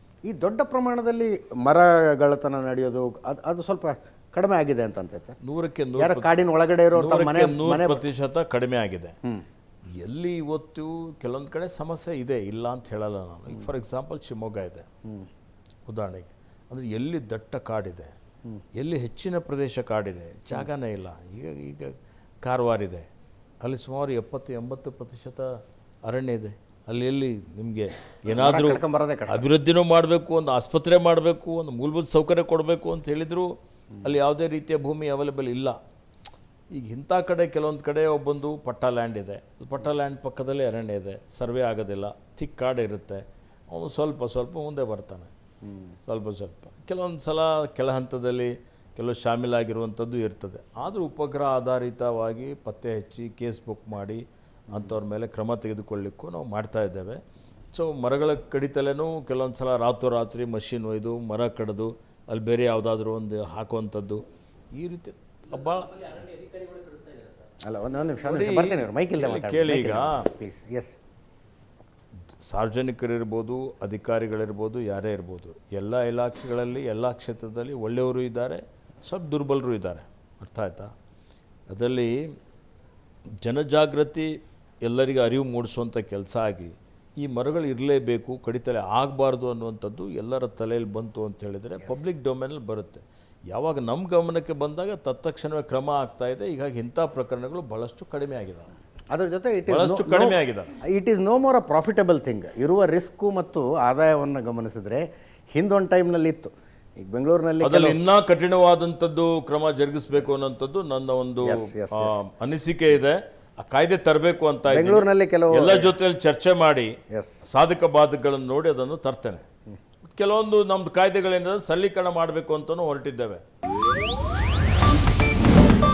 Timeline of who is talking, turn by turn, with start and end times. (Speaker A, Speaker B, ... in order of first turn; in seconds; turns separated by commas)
Speaker A: 0.3-5.4, Speaker B: 5.4-6.3, Speaker A: 6.0-8.0, Speaker B: 6.9-9.2, Speaker B: 10.0-14.9, Speaker B: 15.9-18.1, Speaker B: 18.8-23.1, Speaker B: 23.6-25.5, Speaker B: 26.1-33.5, Speaker A: 28.3-29.5, Speaker B: 34.0-35.8, Speaker B: 36.7-45.3, Speaker A: 45.6-46.0, Speaker B: 46.1-57.2, Speaker A: 54.7-55.0, Speaker B: 57.7-66.2, Speaker A: 67.6-71.0, Speaker B: 68.2-70.3, Speaker B: 72.4-80.9, Speaker B: 81.7-82.4, Speaker B: 83.4-98.7, Speaker A: 99.1-108.0, Speaker B: 99.7-100.7, Speaker B: 107.6-117.0, Speaker A: 111.4-112.2, Speaker A: 114.7-115.9, Speaker A: 117.1-117.5, Speaker B: 117.5-119.5, Speaker B: 120.1-123.4